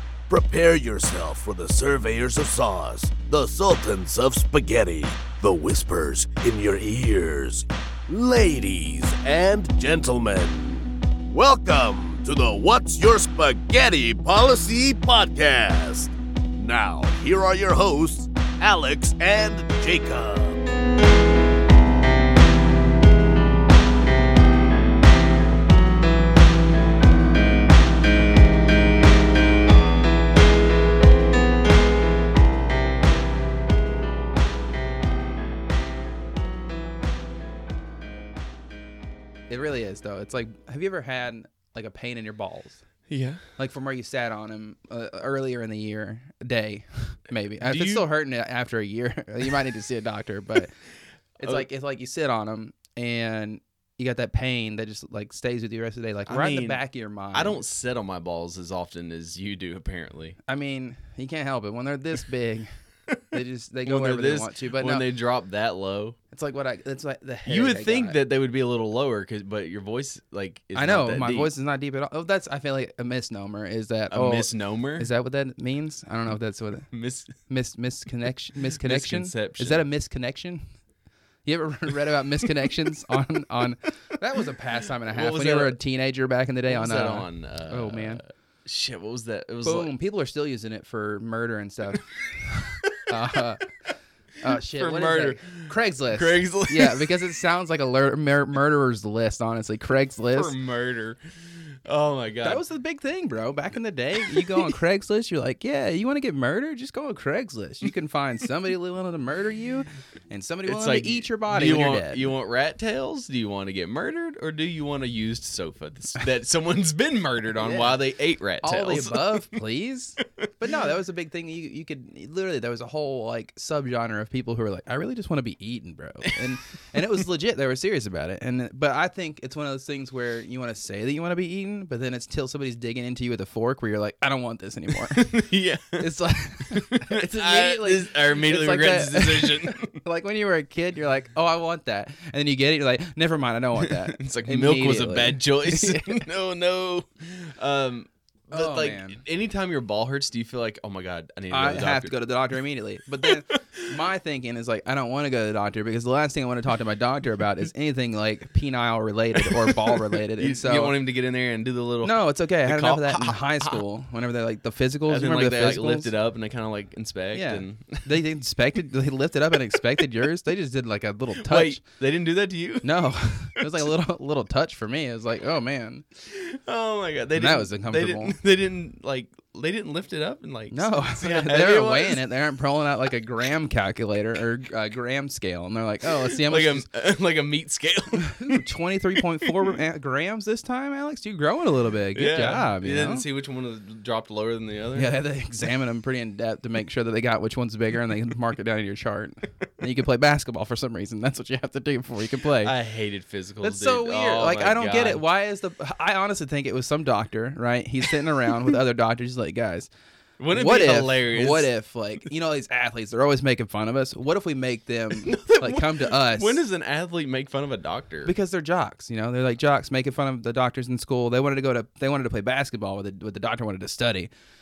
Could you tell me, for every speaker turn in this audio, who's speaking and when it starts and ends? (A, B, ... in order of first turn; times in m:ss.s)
0:00.3-0:20.6 A
0:39.5-0:42.8 B
0:43.1-0:43.4 C
0:43.6-0:50.7 B
0:47.6-0:48.0 C
0:51.4-0:57.6 B
0:56.3-0:56.8 C
0:57.3-1:00.4 C
1:00.5-1:02.7 B
1:03.3-1:05.0 B
1:03.8-1:06.2 C
1:06.3-1:08.2 B
1:07.4-1:11.5 C
1:10.7-1:16.9 B
1:14.1-1:15.1 C
1:16.9-1:17.4 C
1:17.5-1:20.6 B
1:18.8-1:19.8 C
1:21.4-1:28.2 B
1:25.1-1:25.8 C
1:26.7-1:29.9 C
1:29.6-1:33.7 B
1:34.4-1:40.5 B
1:34.5-1:37.2 C
1:40.3-1:41.2 C
1:41.8-1:42.6 C
1:42.4-1:52.3 B
1:44.4-1:44.7 C
1:50.6-1:59.4 C
1:57.6-1:58.0 B
1:58.6-2:26.2 B
2:15.1-2:16.0 C
2:16.7-2:20.0 C
2:23.8-2:32.1 C
2:28.5-2:29.2 B
2:31.5-2:40.9 B
2:33.2-2:34.0 C
2:39.4-2:43.8 C
2:42.0-2:46.1 B
2:45.1-2:48.1 C
2:47.3-2:51.8 B
2:51.4-2:53.0 C
2:52.8-2:56.0 B
2:53.6-2:53.8 C
2:56.3-3:02.2 C
2:57.4-2:58.4 B
3:00.7-3:06.9 B
3:06.1-3:08.6 C
3:08.2-3:13.2 B
3:09.4-3:09.7 C
3:12.1-3:15.2 C
3:15.0-3:22.7 B
3:22.6-3:25.2 C
3:23.6-3:29.9 B
3:30.4-3:31.7 C
3:30.5-3:36.6 B
3:35.2-3:38.3 C
3:38.2-3:44.3 B